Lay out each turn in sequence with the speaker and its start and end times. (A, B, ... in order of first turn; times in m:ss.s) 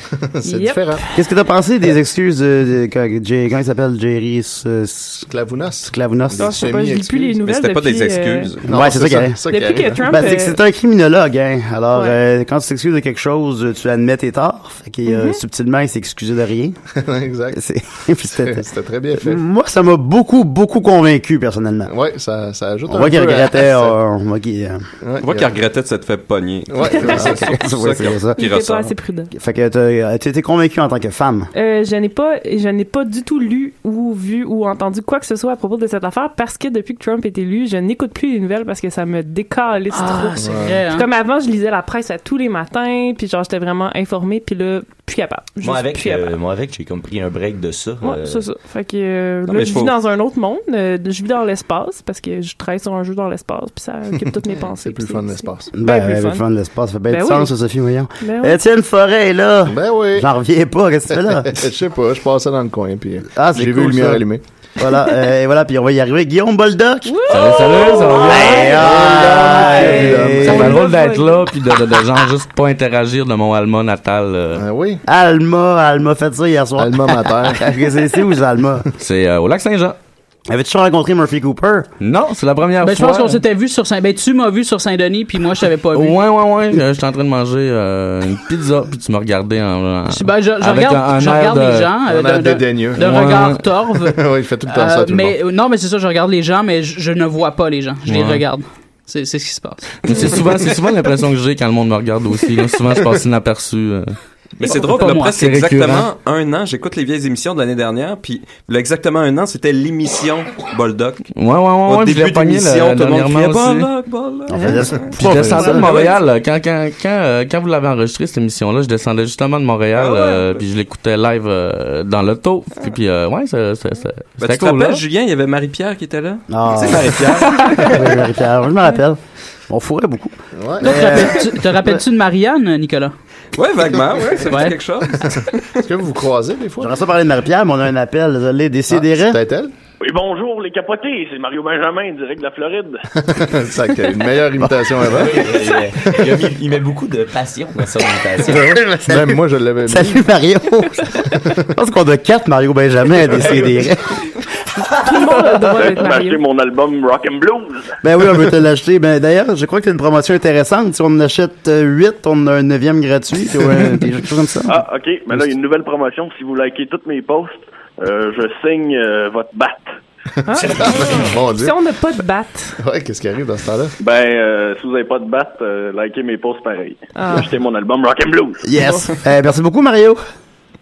0:00.2-0:01.0 A
0:00.4-0:01.0 B
0:01.1-0:05.3 C
0:05.3-0:07.4 A
0:05.8-0:06.6 C
0:06.4-0:08.6 B
0:07.4-0:08.6 D
0:08.6-0:10.3 A
0:08.6-0:09.4 C
0:09.5-0:10.6 B
0:10.0-0:16.8 C
0:11.9-0:12.2 B
0:15.0-0:15.4 B
0:17.0-0:17.6 A
0:17.5-0:18.6 C
0:18.3-0:19.4 A
0:19.2-0:21.9 C
0:21.9-0:24.0 A
0:22.9-0:24.8 C
0:25.0-0:25.6 A
0:25.2-0:28.9 D
0:26.7-0:27.5 A
0:27.0-0:28.4 C
0:28.3-0:29.3 B
0:29.3-0:31.5 C
0:31.5-0:46.3 B
0:39.9-0:41.1 E
0:40.4-0:40.9 A
0:45.6-0:48.5 F
0:48.0-0:56.4 B
0:49.4-0:50.0 D
0:54.1-0:55.7 A
0:55.8-1:01.6 C
0:57.1-0:57.5 B
0:58.2-0:58.6 B
0:59.7-1:00.3 A
1:01.3-1:04.4 A
1:03.3-1:04.2 C
1:04.8-1:10.8 C
1:07.0-1:08.8 B
1:07.3-1:14.6 G
1:08.7-1:10.9 A
1:10.6-1:11.4 B
1:14.6-1:15.0 A
1:15.1-1:18.8 C
1:16.8-1:17.7 A
1:19.0-1:20.0 G
1:20.5-1:21.9 C
1:22.0-1:23.4 G
1:22.8-1:26.2 E
1:25.9-1:31.9 G
1:30.1-1:40.3 E
1:32.0-1:33.1 A
1:33.0-1:33.6 G
1:34.0-1:35.4 A
1:38.0-1:38.4 G
1:40.0-1:44.2 G
1:44.6-1:51.3 D
1:44.6-1:45.4 E
1:45.2-1:46.1 G
1:51.4-1:53.9 G
1:51.8-1:56.2 D
1:54.5-1:55.9 C
1:54.6-1:54.9 B
1:55.2-2:05.0 G
2:04.4-2:08.1 D
2:06.5-2:09.2 C
2:09.7-2:12.0 C
2:10.5-2:11.2 A
2:10.8-2:13.1 E
2:13.5-2:15.8 D
2:14.4-2:14.8 E
2:15.8-2:17.0 A
2:16.8-2:19.4 C
2:18.9-2:19.7 A
2:20.0-2:23.0 H
2:23.2-2:26.4 A
2:25.1-2:28.8 F
2:28.6-2:34.2 C
2:28.7-2:30.2 A
2:34.9-2:36.4 B
2:35.7-2:37.9 H
2:38.0-2:44.8 C
2:44.6-2:49.9 H
2:50.5-2:52.8 B
2:50.5-2:51.8 A
2:50.6-2:51.1 F
2:52.8-2:53.9 A
2:54.0-2:58.6 H
2:57.2-2:57.5 B
2:58.6-3:00.2 C